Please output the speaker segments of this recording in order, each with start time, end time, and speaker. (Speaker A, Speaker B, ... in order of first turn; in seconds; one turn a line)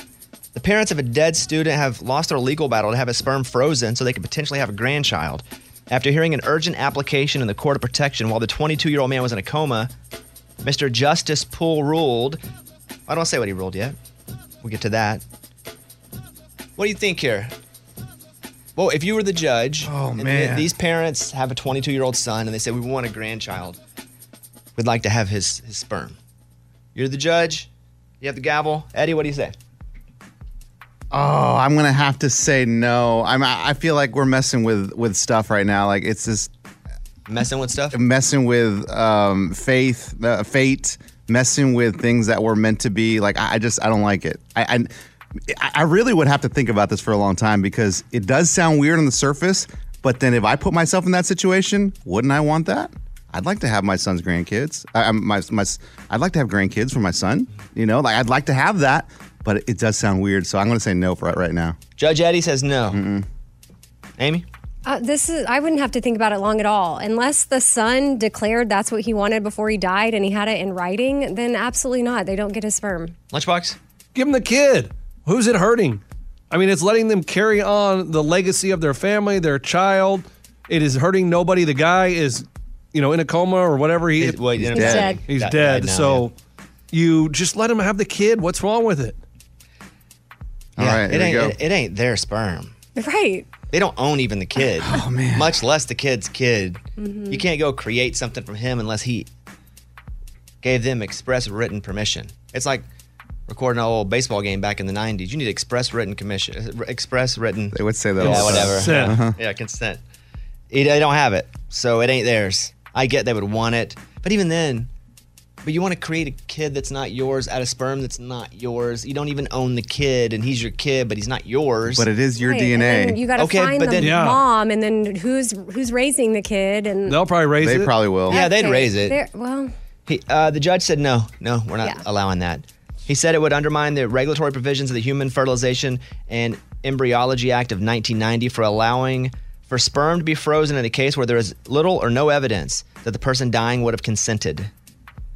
Speaker A: 0.6-9.9
Speaker A: 10.6-12.4
Speaker A: 13.1-14.0
Speaker A: 14.6-15.2
Speaker A: 16.8-17.5
Speaker A: 18.8-23.8
Speaker B: 19.8-20.7
Speaker A: 24.8-26.2
Speaker A: 26.9-27.7
Speaker A: 28.2-29.5
Speaker B: 31.1-36.5
Speaker A: 37.3-38.0
Speaker B: 37.9-44.9
Speaker B: 45.5-61.8
Speaker A: 62.0-63.0
Speaker B: 62.9-63.3
Speaker A: 64.2-64.5
Speaker C: 64.8-73.2
Speaker A: 73.3-73.8
Speaker D: 74.2-86.3
Speaker A: 84.2-86.3
Speaker C: 84.7-85.2
Speaker D: 86.9-89.2
Speaker B: 90.8-91.6
Speaker A: 90.8-92.7
Speaker C: 93.0-93.5
Speaker A: 93.7-99.3
Speaker B: 94.8-95.6
Speaker C: 97.0-97.4
Speaker A: 100.6-102.9
Speaker A: 103.5-110.0
Speaker B: 107.7-109.4
Speaker D: 108.2-109.2
Speaker A: 110.7-114.9
Speaker A: 115.6-122.1
Speaker B: 121.9-123.2
Speaker C: 122.4-127.2
Speaker A: 123.4-124.2
Speaker D: 124.0-124.4
Speaker D: 127.1-127.9
Speaker B: 127.6-128.4
Speaker C: 128.3-129.7
Speaker A: 128.3-129.2
Speaker A: 130.1-144.7